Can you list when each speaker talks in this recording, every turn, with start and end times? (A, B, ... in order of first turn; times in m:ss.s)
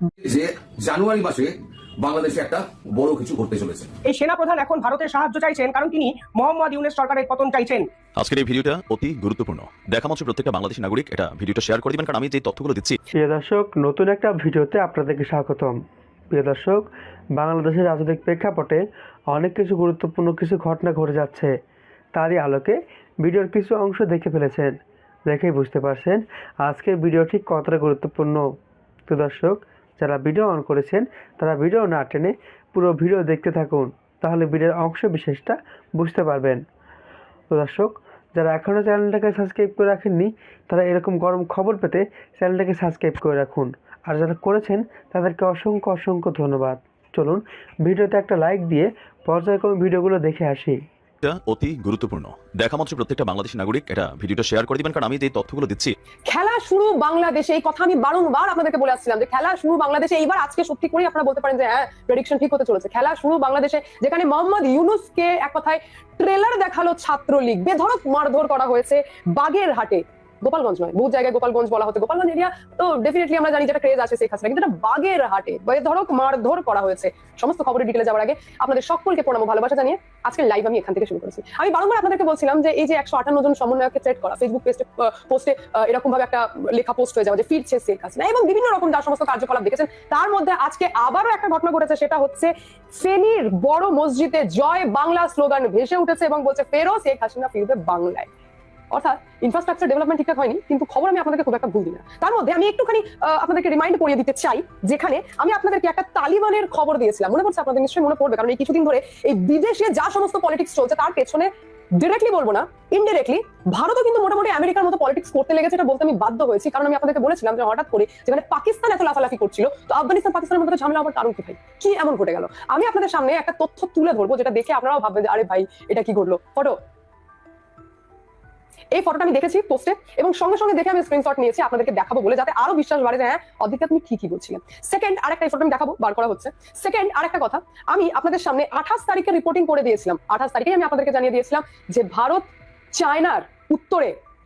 0:00.2-0:03.9 A
0:04.1-0:07.8 B
0:08.2-0:13.0 C
0:13.2-0:15.8 D
0:16.3-0:16.8 D
0:17.4-0:21.5 D
0:22.2-0:24.8 D
0:25.3-0:28.4 D
0:29.1-0:36.6 D
0:37.5-0:50.8 D
0:51.2-0:56.0 C
0:56.3-1:38.3 E
1:38.9-2:06.8 E
2:08.9-2:24.2 E